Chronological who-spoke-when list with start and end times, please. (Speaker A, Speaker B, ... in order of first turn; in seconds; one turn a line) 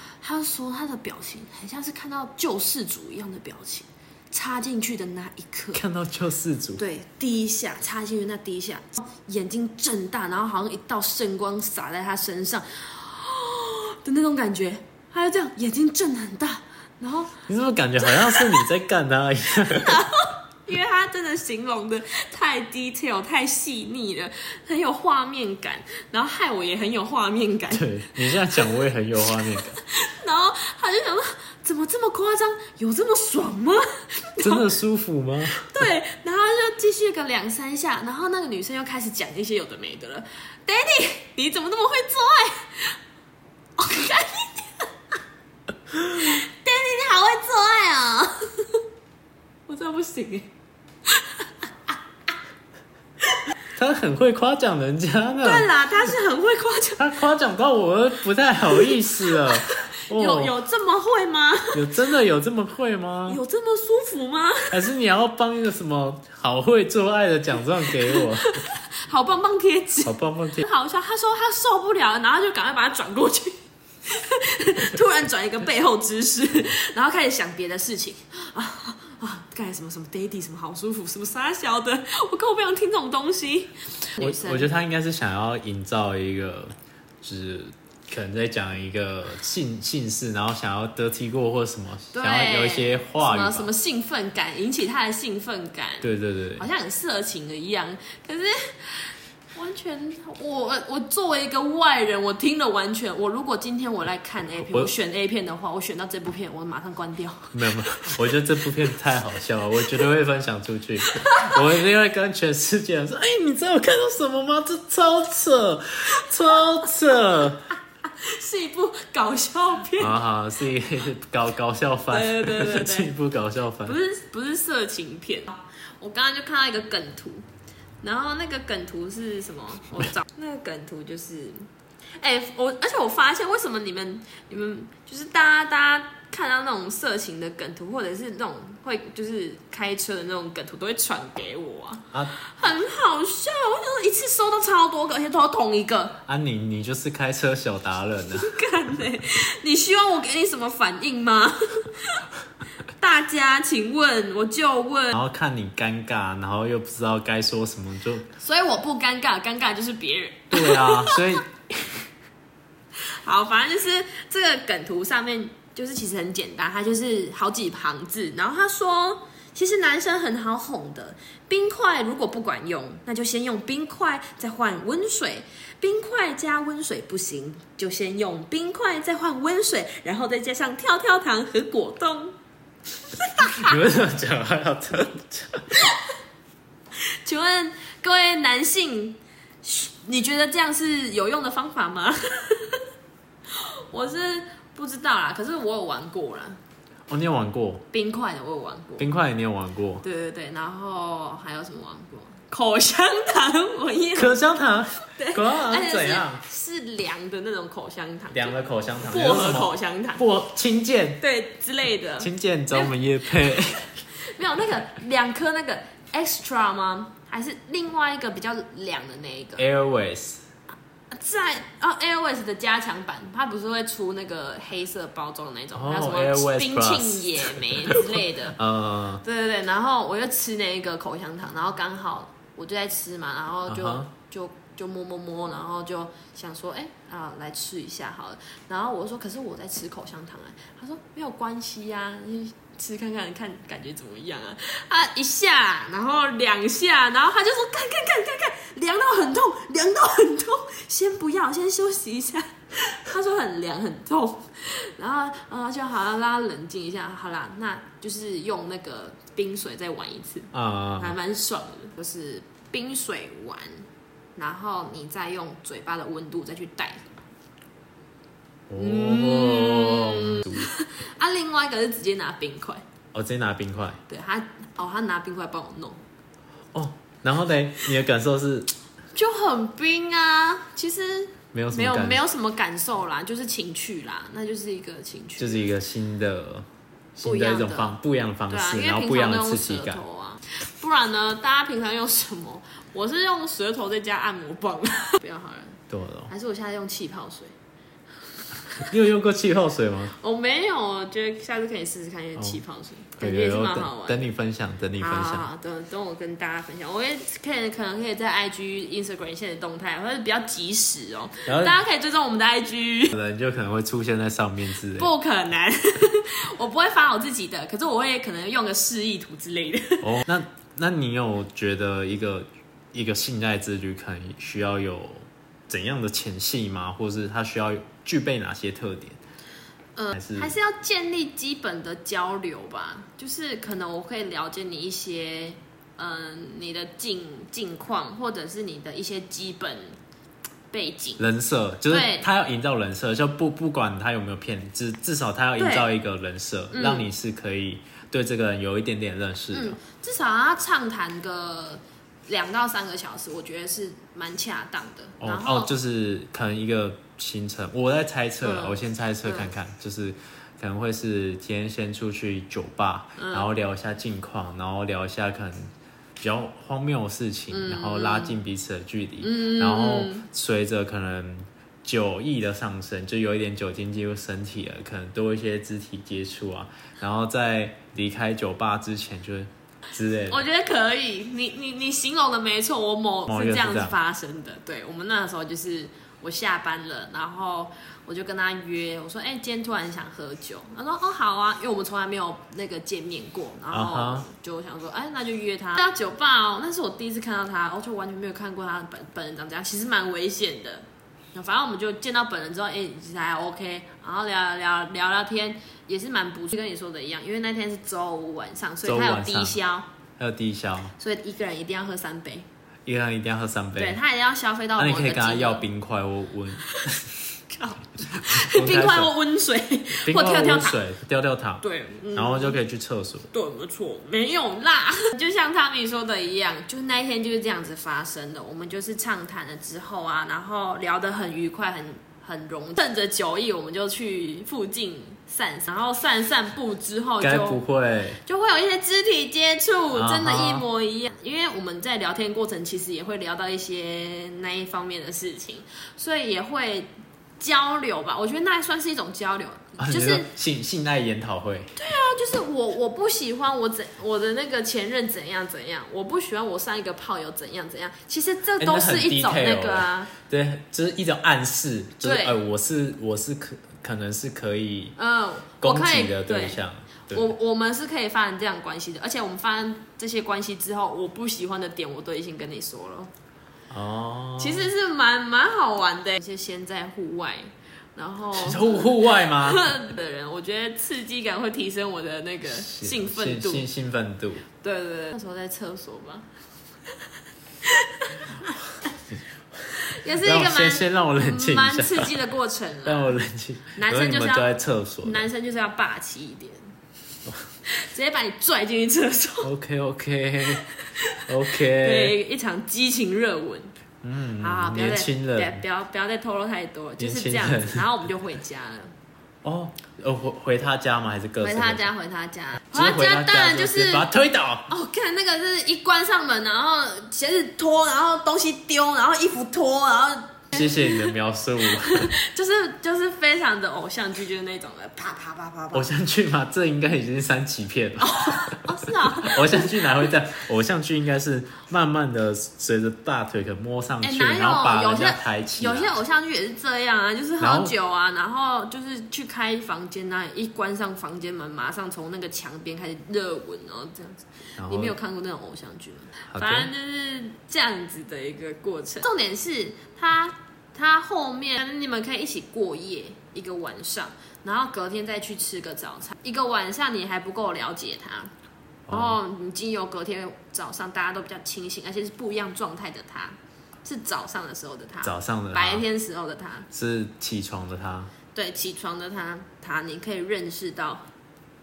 Speaker A: 0.2-5.8
Speaker B: 5.7-6.8
Speaker A: 6.8-17.4
Speaker B: 17.5-20.0
Speaker A: 18.0-18.6
Speaker A: 19.7-28.7
Speaker B: 27.7-29.8
Speaker A: 29.5-34.7
Speaker B: 34.4-35.9
Speaker A: 35.5-43.0
Speaker A: 43.8-44.9
Speaker A: 46.0-48.8
Speaker A: 49.7-50.5
Speaker A: 51.1-51.5
Speaker B: 53.7-55.7
Speaker A: 55.4-57.1
Speaker B: 57.0-60.5
Speaker A: 58.7-62.0
Speaker B: 61.7-63.4
Speaker A: 63.3-64.8
Speaker B: 64.7-68.6
Speaker A: 67.9-84.7
Speaker B: 70.0-70.6
Speaker B: 84.2-93.7
Speaker A: 92.1-108.2
Speaker B: 96.0-96.7
Speaker B: 107.5-117.7
Speaker A: 111.1-111.6
Speaker A: 118.0-120.2
Speaker B: 120.0-124.0
Speaker A: 122.1-123.1
Speaker A: 123.8-127.4
Speaker A: 128.0-146.2
Speaker B: 146.2-148.6
Speaker A: 148.3-152.2
Speaker A: 153.0-155.2
Speaker B: 155.1-158.3
Speaker A: 158.4-161.4
Speaker B: 160.5-161.5
Speaker A: 163.2-182.3
Speaker A: 183.1-183.8
Speaker B: 183.6-185.7
Speaker A: 187.2-192.8
Speaker A: 193.5-196.6
Speaker B: 197.1-197.8
Speaker A: 197.9-199.1
Speaker B: 199.0-200.0
Speaker A: 200.0-204.4
Speaker B: 204.1-206.4
Speaker A: 205.0-210.2
Speaker B: 208.3-211.2
Speaker A: 211.2-212.9
Speaker B: 212.2-214.0
Speaker A: 214.1-219.6
Speaker B: 219.6-220.4
Speaker A: 221.1-228.6
Speaker B: 225.7-229.2
Speaker A: 229.2-263.8
Speaker B: 233.7-234.1
Speaker B: 260.5-261.1
Speaker A: 264.4-267.1
Speaker B: 268.7-270.7
Speaker A: 268.8-272.8
Speaker B: 273.1-274.0
Speaker A: 274.1-276.0
Speaker B: 276.7-278.7
Speaker A: 279.1-285.7
Speaker B: 281.5-282.2
Speaker B: 285.4-290.0
Speaker A: 287.2-288.0
Speaker A: 288.5-297.5
Speaker B: 295.9-296.3
Speaker A: 298.5-298.9
Speaker B: 298.8-300.1
Speaker A: 300.1-304.3
Speaker B: 303.2-305.5
Speaker A: 305.0-313.1
Speaker B: 311.5-311.8
Speaker B: 313.1-315.1
Speaker A: 314.9-320.1
Speaker B: 320.0-329.2
Speaker A: 329.9-340.0
Speaker B: 330.1-330.5
Speaker A: 340.7-341.2
Speaker B: 341.2-349.8
Speaker A: 341.9-342.3
Speaker A: 345.6-345.9
Speaker A: 346.7-347.1
Speaker A: 349.5-355.7
Speaker B: 355.2-380.4
Speaker A: 358.4-359.5
Speaker A: 363.2-363.5
Speaker A: 367.5-368.4
Speaker A: 369.2-370.3
Speaker A: 380.3-409.9
Speaker B: 383.3-383.9
Speaker B: 393.7-394.3
Speaker B: 408.8-409.6
Speaker B: 410.2-410.9
Speaker A: 411.0-412.4
Speaker B: 412.9-414.0
Speaker A: 413.8-415.6
Speaker B: 414.8-417.1
Speaker A: 416.7-420.8
Speaker B: 418.1-419.1
Speaker B: 420.0-423.3
Speaker A: 421.6-422.6
Speaker A: 423.3-437.6
Speaker B: 437.2-438.2
Speaker A: 438.2-450.3
Speaker B: 439.9-440.6
Speaker B: 449.8-451.7
Speaker A: 451.8-460.1
Speaker B: 458.6-464.9
Speaker A: 462.0-462.4
Speaker A: 465.0-473.1
Speaker B: 465.6-467.3
Speaker B: 473.7-474.7
Speaker A: 474.4-483.7
Speaker B: 478.3-479.7
Speaker B: 482.5-484.4
Speaker A: 484.6-486.3
Speaker A: 487.6-488.5
Speaker A: 489.7-493.1
Speaker B: 490.1-492.2
Speaker B: 492.8-495.3
Speaker A: 493.7-496.6
Speaker A: 497.6-499.5
Speaker B: 499.4-500.7
Speaker A: 500.6-503.7
Speaker B: 501.2-502.2
Speaker B: 504.0-505.6
Speaker A: 504.4-508.9
Speaker B: 507.0-507.9
Speaker B: 509.4-511.9
Speaker A: 511.4-514.1
Speaker B: 512.7-514.7
Speaker A: 514.7-525.9
Speaker B: 520.5-522.1
Speaker B: 525.7-536.0
Speaker A: 528.0-530.1
Speaker A: 534.0-558.3
Speaker B: 537.4-537.7
Speaker B: 544.6-545.0
Speaker B: 546.3-546.7
Speaker B: 558.9-559.2
Speaker A: 558.9-566.7
Speaker B: 565.0-565.9
Speaker B: 566.7-568.1
Speaker A: 568.3-571.1